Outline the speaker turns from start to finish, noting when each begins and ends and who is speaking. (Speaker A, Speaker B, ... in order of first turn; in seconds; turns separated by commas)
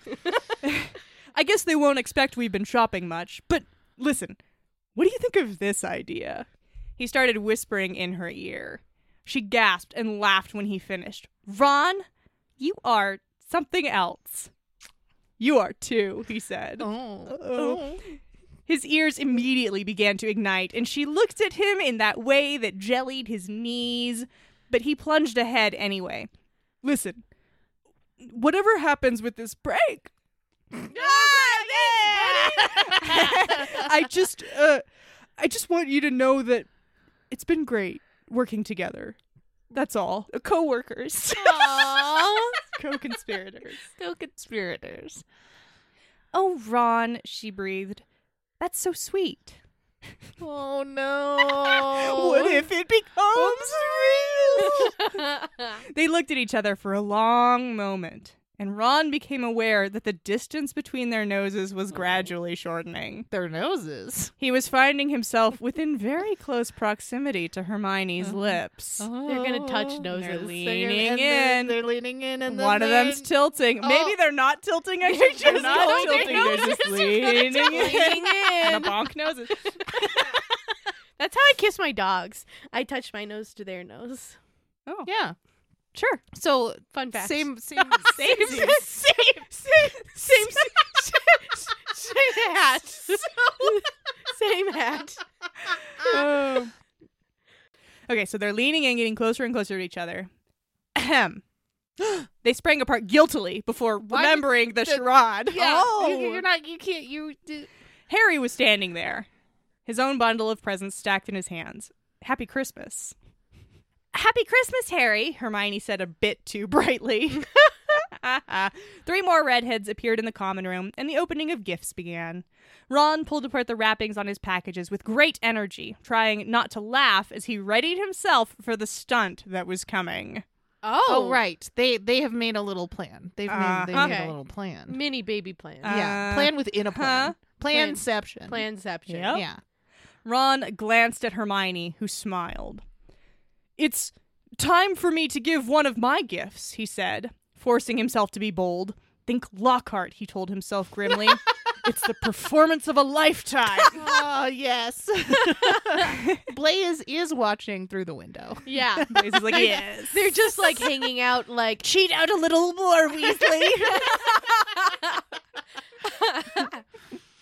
Speaker A: 0.6-4.4, Speaker A: 5.0-6.5, Speaker A: 7.0-12.1, Speaker A: 12.6-14.5, Speaker A: 15.4-18.1, Speaker B: 16.8-18.0, Speaker A: 18.7-26.3, Speaker A: 26.8-27.2, Speaker A: 28.2-30.1, Speaker A: 30.9-34.8, Speaker C: 30.9-32.7, Speaker B: 30.9-33.9, Speaker A: 35.4-36.7, Speaker A: 37.3-39.2, Speaker A: 39.7-43.8, Speaker B: 41.3-42.6, Speaker C: 42.1-42.5, Speaker B: 43.9-45.2, Speaker A: 46.3-48.0, Speaker A: 48.6-49.6, Speaker B: 50.4-52.7, Speaker A: 51.4-55.2, Speaker B: 53.3-54.9, Speaker C: 54.8-55.7, Speaker A: 55.8-63.3, Speaker B: 63.3-64.3, Speaker A: 64.4-69.1, Speaker B: 68.2-73.3, Speaker C: 69.2-71.1, Speaker A: 70.3-71.8, Speaker A: 72.4-79.9, Speaker B: 73.8-74.2, Speaker B: 75.1-78.3, Speaker C: 75.1-79.0, Speaker C: 79.5-80.4, Speaker C: 81.2-84.4, Speaker B: 85.0-85.3, Speaker A: 85.9-86.2, Speaker B: 86.3-88.8, Speaker C: 86.9-95.2, Speaker A: 88.1-90.7, Speaker A: 96.0-96.7, Speaker A: 98.1-100.3, Speaker A: 100.9-101.4, Speaker A: 102.2-106.4, Speaker B: 104.1-107.7, Speaker A: 108.1-109.3, Speaker A: 109.8-113.1, Speaker A: 114.1-130.4, Speaker C: 130.8-131.4, Speaker B: 131.1-135.0, Speaker A: 133.5-134.2, Speaker C: 133.9-135.9, Speaker A: 135.8-137.4, Speaker B: 135.8-138.6, Speaker C: 137.7-139.4, Speaker A: 139.1-139.4, Speaker B: 139.3-139.6, Speaker A: 140.2-142.8, Speaker A: 143.8-154.1, Speaker B: 153.9-159.1, Speaker A: 156.1-156.4, Speaker C: 158.7-161.8, Speaker A: 159.1-160.3, Speaker A: 161.8-164.9, Speaker C: 166.1-166.7